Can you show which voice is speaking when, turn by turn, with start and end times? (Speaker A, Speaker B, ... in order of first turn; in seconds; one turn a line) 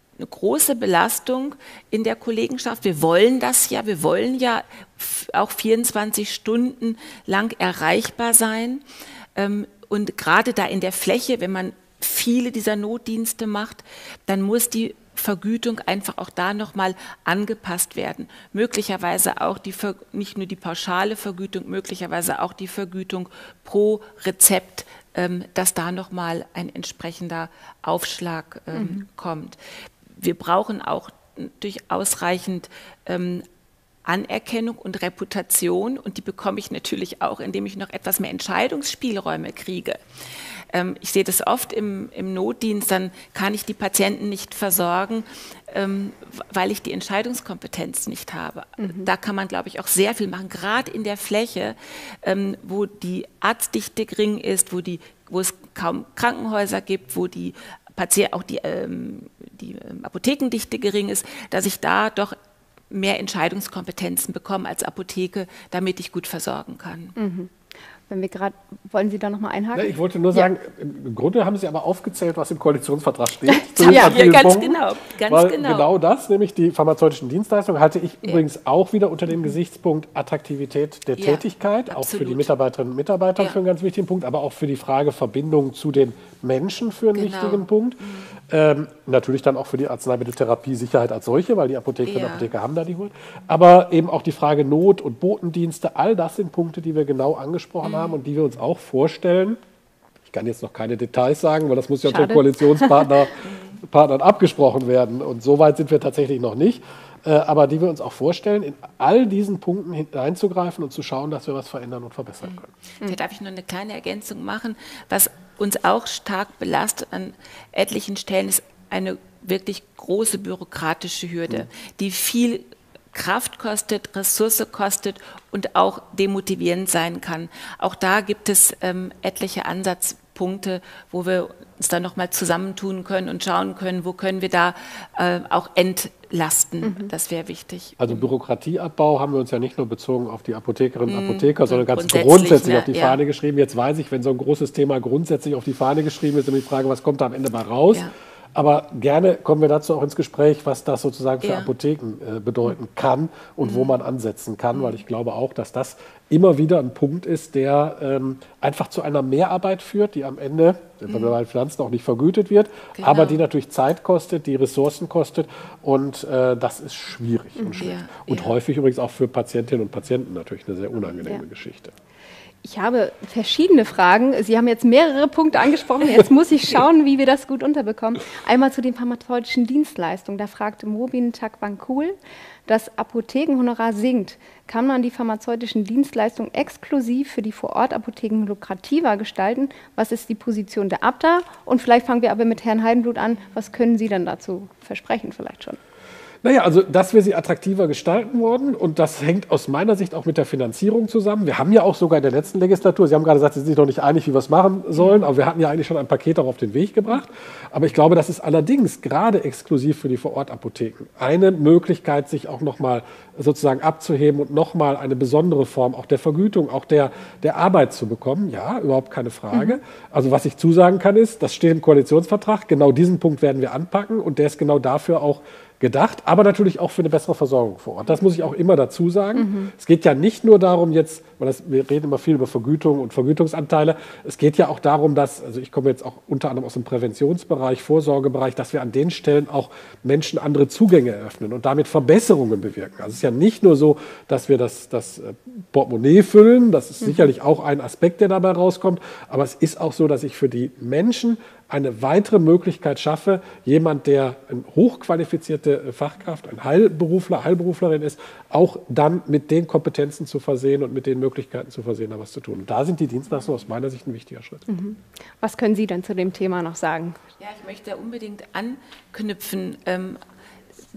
Speaker A: 0.2-8.8
Speaker A: 9.3-29.6
Speaker B: 28.7-29.0
Speaker A: 30.1-33.4
Speaker A: 34.0-40.0
Speaker A: 40.7-62.4
Speaker B: 48.8-49.1
Speaker A: 62.9-67.2
Speaker B: 67.2-67.5
Speaker B: 68.1-70.5
Speaker C: 69.7-99.6
Speaker A: 73.8-75.9
Speaker B: 73.8-74.1
Speaker A: 81.2-82.5
Speaker A: 87.2-88.3
Speaker A: 92.0-92.5
Speaker A: 97.8-98.1
Speaker C: 100.3-112.7
Speaker B: 102.0-103.3
Speaker A: 103.4-103.8
Speaker A: 112.5-138.3
Speaker B: 136.8-137.1
Speaker C: 138.0-171.9
Speaker A: 141.1-143.2
Speaker A: 151.4-151.7
Speaker A: 153.6-153.9
Speaker A: 161.1-161.3
Speaker A: 163.0-163.4
Speaker A: 167.8-168.6
Speaker B: 172.6-182.2
Speaker B: 182.7-195.8
Speaker C: 196.4-264.6
Speaker B: 219.5-219.8
Speaker B: 229.3-229.7
Speaker B: 247.0-247.3
Speaker B: 264.7-267.2
Speaker A: 267.4-270.2